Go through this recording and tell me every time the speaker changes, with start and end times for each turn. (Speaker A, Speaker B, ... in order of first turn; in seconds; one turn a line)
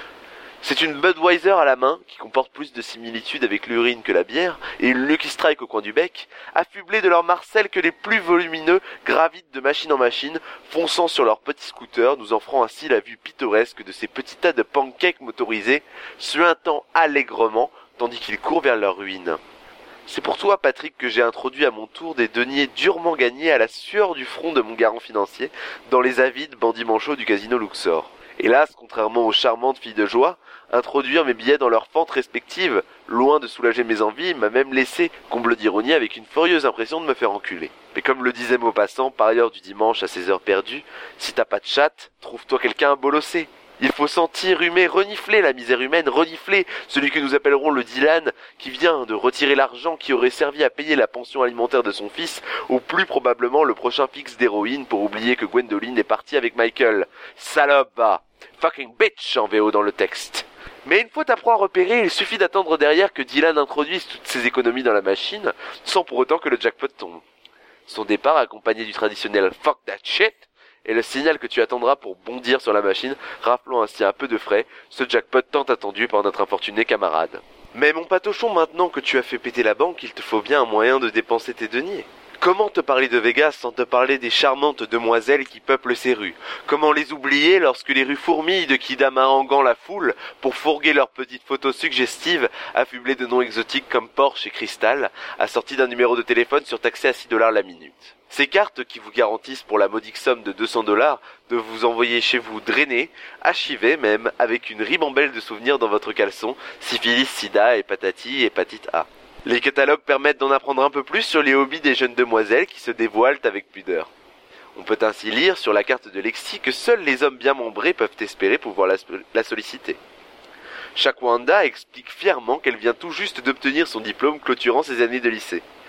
Speaker A: 0.6-19.4
Speaker A: 20.1-67.2
Speaker A: 67.9-114.1
Speaker A: 114.8-120.0
Speaker A: 121.0-125.6